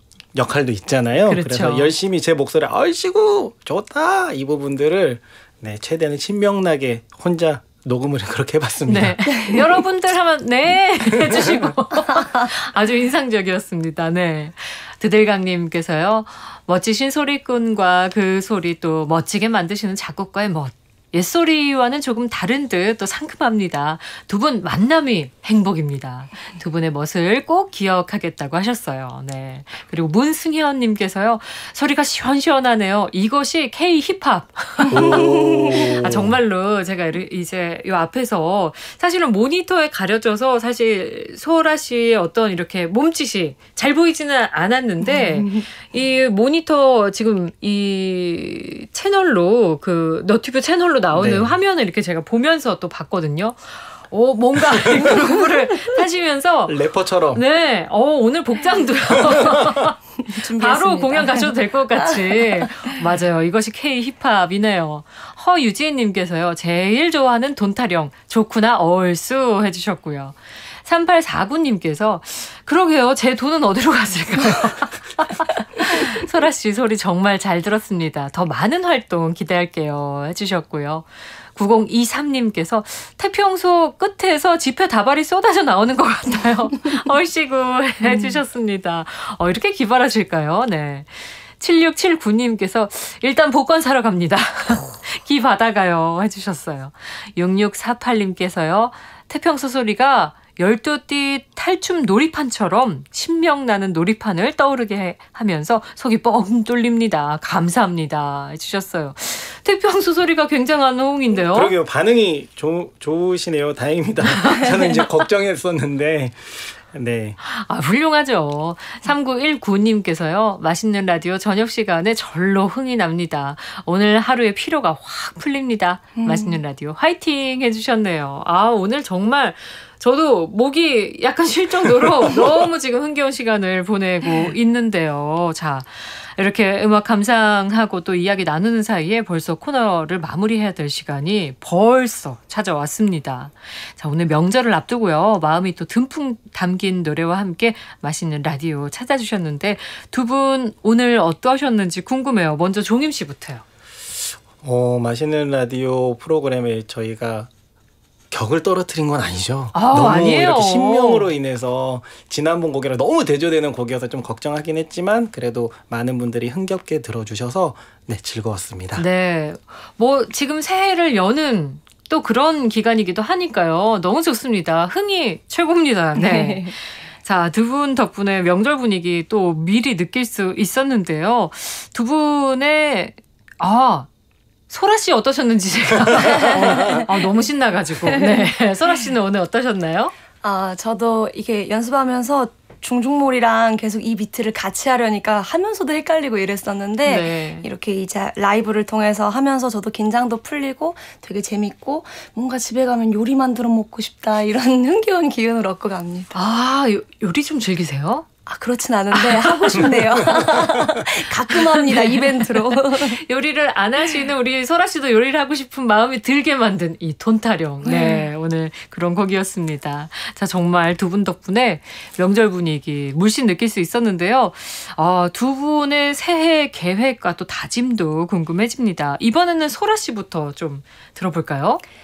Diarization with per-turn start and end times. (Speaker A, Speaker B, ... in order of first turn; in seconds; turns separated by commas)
Speaker A: 0.3-9.6, Speaker B: 1.3-1.9, Speaker B: 8.8-111.7, Speaker A: 11.2-11.6, Speaker A: 34.9-36.4, Speaker C: 45.1-45.6, Speaker A: 51.1-51.5, Speaker A: 54.6-55.1, Speaker A: 56.7-57.4, Speaker A: 59.1-59.9, Speaker C: 60.2-62.7, Speaker C: 88.0-88.4, Speaker A: 111.4-117.4, Speaker B: 114.3-114.7, Speaker B: 117.4-153.6, Speaker C: 126.2-126.6, Speaker A: 154.2-157.5, Speaker A: 158.3-169.1, Speaker B: 159.7-161.3, Speaker B: 168.9-184.1, Speaker C: 176.2-176.7, Speaker B: 184.7-190.1, Speaker C: 186.2-187.1, Speaker A: 186.5-187.1, Speaker C: 188.0-188.5, Speaker C: 190.4-206.4, Speaker B: 197.0-197.7, Speaker B: 206.3-208.2, Speaker C: 208.4-213.2, Speaker B: 209.1-210.5, Speaker A: 210.2-211.0, Speaker B: 211.5-231.8, Speaker C: 217.8-218.3